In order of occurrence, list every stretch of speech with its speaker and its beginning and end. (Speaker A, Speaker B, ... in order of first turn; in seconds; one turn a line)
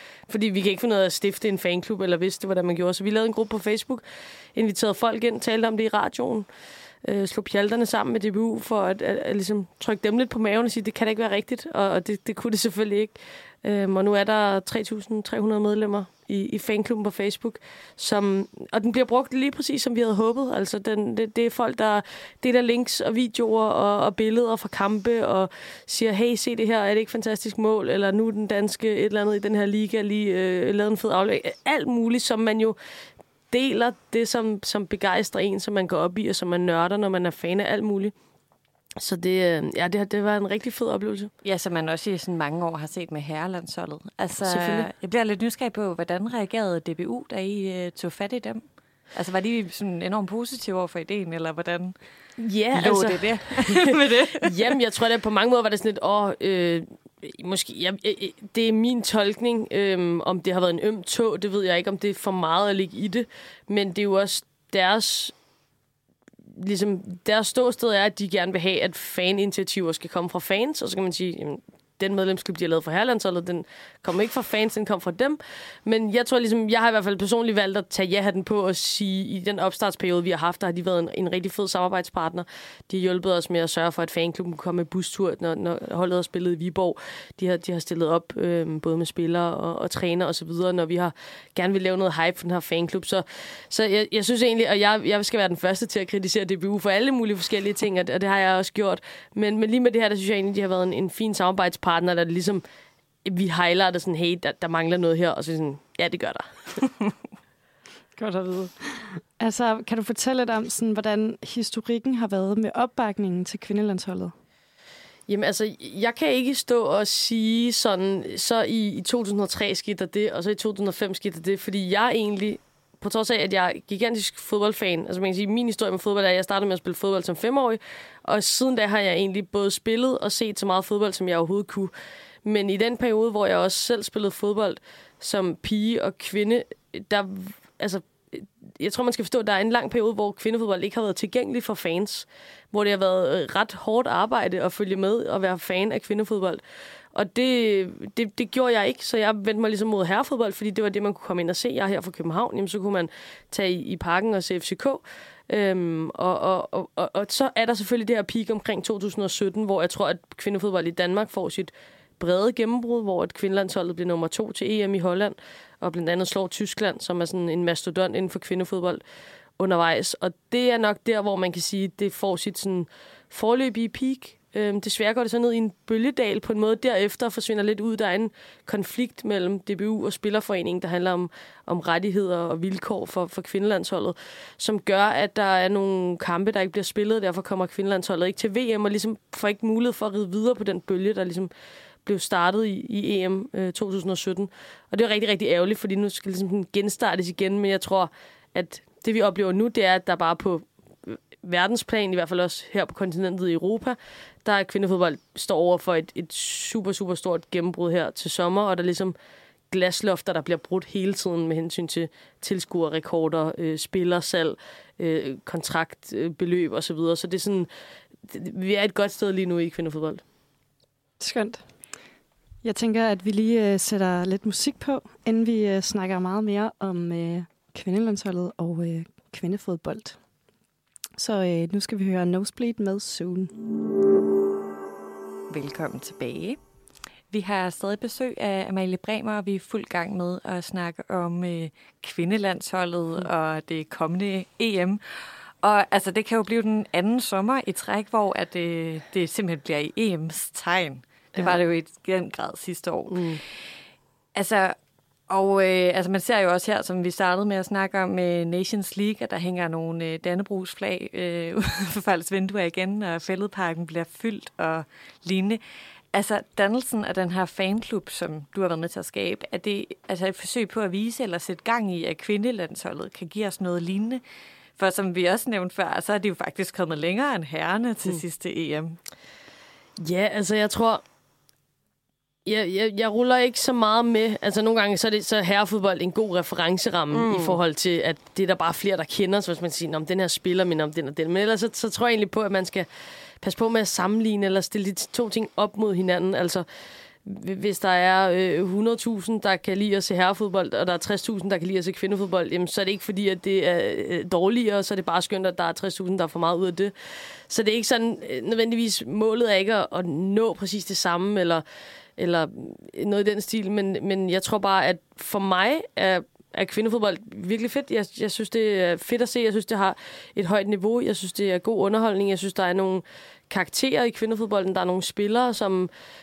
Speaker A: 0.3-4.0
Speaker A: 4.5-6.5
Speaker A: 7.0-32.8
Speaker A: 33.5-38.1
Speaker A: 39.0-41.3
Speaker B: 41.4-48.6
Speaker A: 44.5-44.9
Speaker B: 49.1-52.0
Speaker A: 52.4-65.3
Speaker B: 52.7-54.5
Speaker A: 66.6-102.6
Speaker A: 103.2-107.0
Speaker C: 108.2-108.7
Speaker C: 109.4-114.3
Speaker A: 115.3-131.9
Speaker A: 132.4-146.6
Speaker A: 147.1-169.0
Speaker A: 169.6-191.5
Speaker A: 192.1-209.2
Speaker A: 209.7-217.7
Speaker A: 218.3-220.2
Speaker C: 221.2-221.6
Speaker C: 222.6-230.2
Speaker C: 231.2-233.5
Speaker B: 235.5-236.6
Speaker B: 237.3-245.0
Speaker B: 245.6-253.3
Speaker A: 253.1-253.4
Speaker B: 254.3-254.8
Speaker B: 255.3-265.6
Speaker B: 266.1-274.2
Speaker B: 274.8-279.0
Speaker A: 280.0-281.0
Speaker A: 282.5-292.9
Speaker B: 287.1-287.6
Speaker A: 293.4-296.7
Speaker A: 297.2-306.9
Speaker A: 307.5-311.6
Speaker A: 312.2-325.9